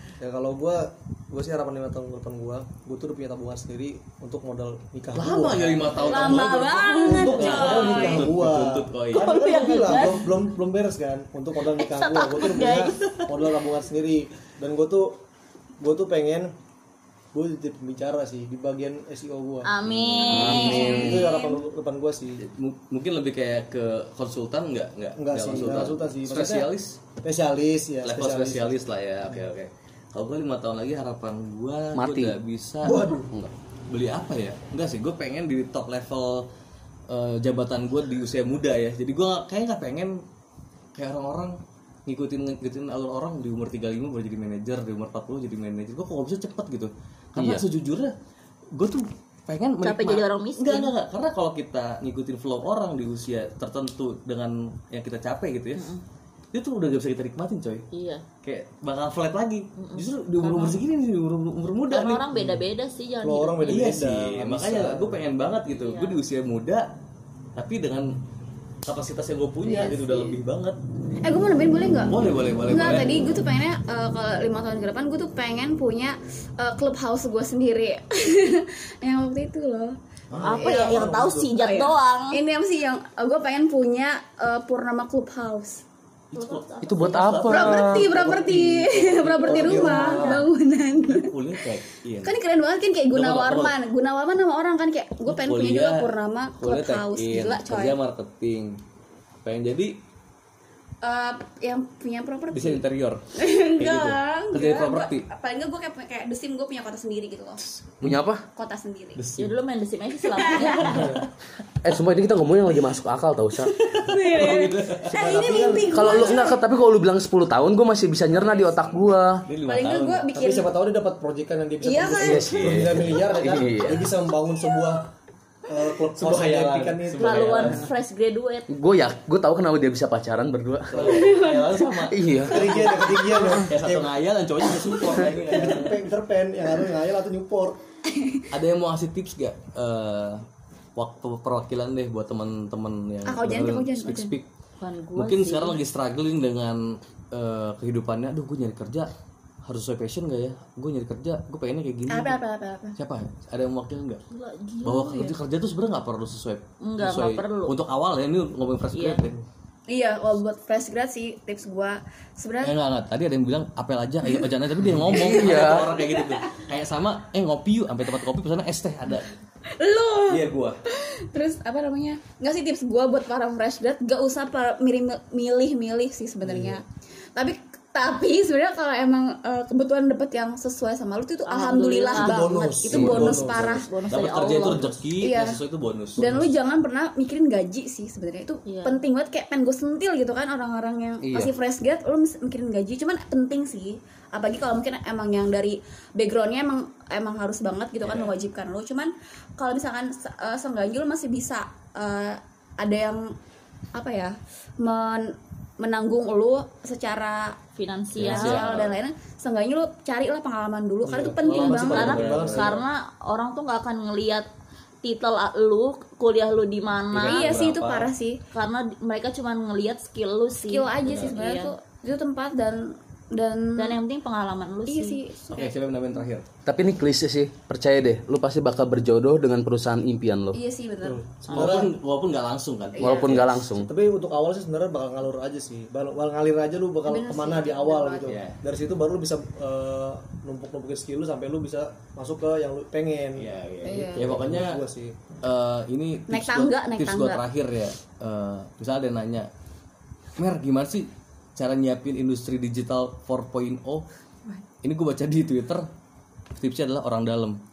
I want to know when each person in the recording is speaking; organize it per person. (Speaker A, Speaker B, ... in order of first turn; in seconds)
Speaker A: 0.2-6.5, 7.0-15.2, 15.8-16.5, 17.3-19.7, 20.7-22.4, 25.1-26.7, 27.2-29.4, 32.8-33.3, 62.3-62.6, 63.2-65.2, 80.3-81.6, 89.5-90.5, 110.8-111.2, 115.1-116.4, 120.3-125.1, 125.7-127.9, 132.4-134.1, 134.9-137.8, 176.4-176.8, 182.1-183.8, 186.2-186.5, 211.0-212.8, 231.0-231.9, 233.8-245.2
Speaker B: 5.1-9.3, 12.6-13.3, 19.8-20.9, 22.4-27.0, 28.0-33.0, 33.9-36.5, 37.1-40.2, 40.9-48.1, 48.7-55.9, 56.5-57.9, 58.4-62.2, 63.6-66.9, 67.5-68.1, 68.8-70.8, 72.0-73.1, 80.3-80.7, 86.3-90.2, 91.0-92.3, 93.1-93.7, 95.2-98.8, 99.4-100.0, 102.5-105.3, 107.8-108.2, 109.2-109.6, 110.8-111.2, 113.6-115.1, 119.5-120.3, 122.2-123.7, 126.1-127.9, 130.9-136.0, 138.5-140.4, 140.9-144.4, 145.1-149.1, 149.6-152.4, 152.9-154.2, 154.8-159.4, 162.6-169.3, 170.3-170.8, 182.9-186.2, 198.0-198.3, 208.1-208.9, 211.4-212.8, 217.1-218.1, 221.0-221.3, 225.5-226.4, 231.5-233.6, 238.2-238.6, 243.3-244.8, 245.4-249.5, 250.4-254.0, 254.8-255.9, 256.6-257.6
Speaker C: 6.0-8.1, 9.2-10.3, 11.7-13.0, 19.6-21.2, 49.8-50.9, 55.8-56.0, 57.9-58.2, 59.8-60.8, 61.9-63.7, 65.7-66.2, 69.7-70.3, 80.4-82.4, 86.3-87.4, 89.4-90.4, 109.4-111.2, 127.2-128.7, 144.8-145.8, 154.3-155.4, 156.8-157.8, 158.9-159.2, 181.5-182.6, 183.5-185.0, 188.7-189.0, 207.8-208.6, 211.6-214.4, 215.0-217.6, 218.5-221.7, 223.8-225.2, 231.5-231.8
Speaker D: 6.2-8.3, 20.4-21.6, 71.2-80.0, 80.5-85.8, 87.5-91.3, 92.2-98.0, 101.0-102.8, 103.3-107.7, 108.5-109.2, 110.3-111.2, 114.0-116.6, 119.7-120.7, 121.8-122.5, 131.1-131.7, 143.2-144.3, 152.1-152.9, 159.9-162.7, 165.6-166.3, 169.7-183.9, 185.2-185.6, 186.2-203.3, 203.9-207.6, 208.2-212.2, 217.2-218.4, 220.7-224.0, 224.9-225.7, 230.5-231.2, 233.0-233.3, 237.1-238.3, 243.8-244.4, 246.3-247.4
Speaker E: 20.3-21.3, 31.9-32.4, 47.4-47.6, 86.8-88.1, 108.0-108.5, 111.8-113.7, 115.2-119.4, 122.2-124.1, 128.7-131.2, 132.0-132.9, 165.1-165.9, 191.2-191.5, 226.7-230.6, 233.0-233.9